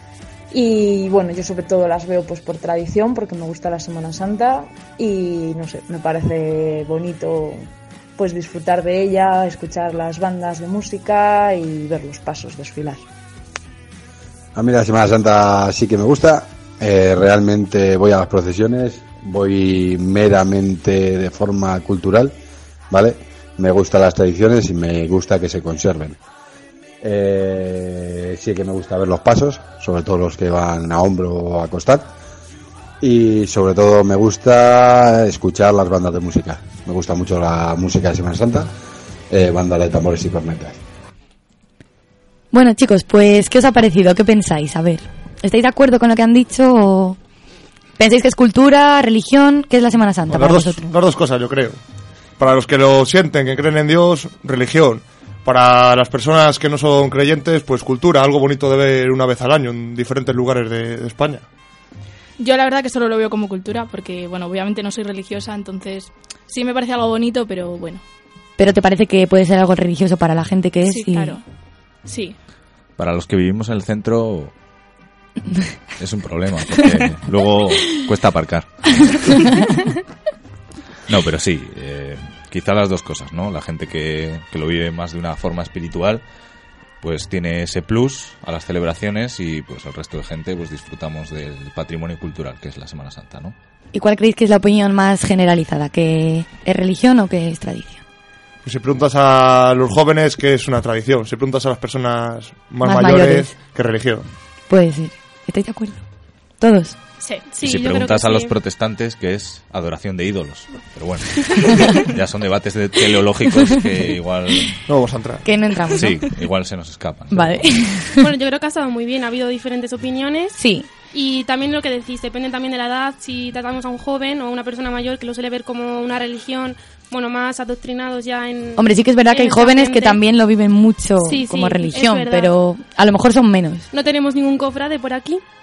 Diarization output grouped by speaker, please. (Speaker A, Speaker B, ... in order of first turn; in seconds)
Speaker A: 0.5-7.7, 8.2-13.0
Speaker B: 14.6-22.3, 22.9-26.2, 27.0-32.1, 33.0-38.7, 39.3-40.8
Speaker C: 42.5-47.2, 48.0-50.9, 68.6-71.4, 93.9-98.0, 102.8-103.5, 104.7-106.0, 106.6-107.0, 115.5-116.2, 117.3-118.3, 120.6-120.9, 128.8-133.9
Speaker D: 50.3-51.8, 52.4-61.5, 98.6-104.2, 114.9-115.5
Speaker E: 62.4-68.0, 70.9-71.4, 72.0-72.4
Speaker F: 73.0-74.5, 76.0-79.5, 81.1-86.2, 87.0-93.5, 107.6-114.7, 115.9-117.6
Speaker G: 107.4-108.5, 118.2-120.6, 121.1-130.2, 131.2-132.5, 133.9-135.4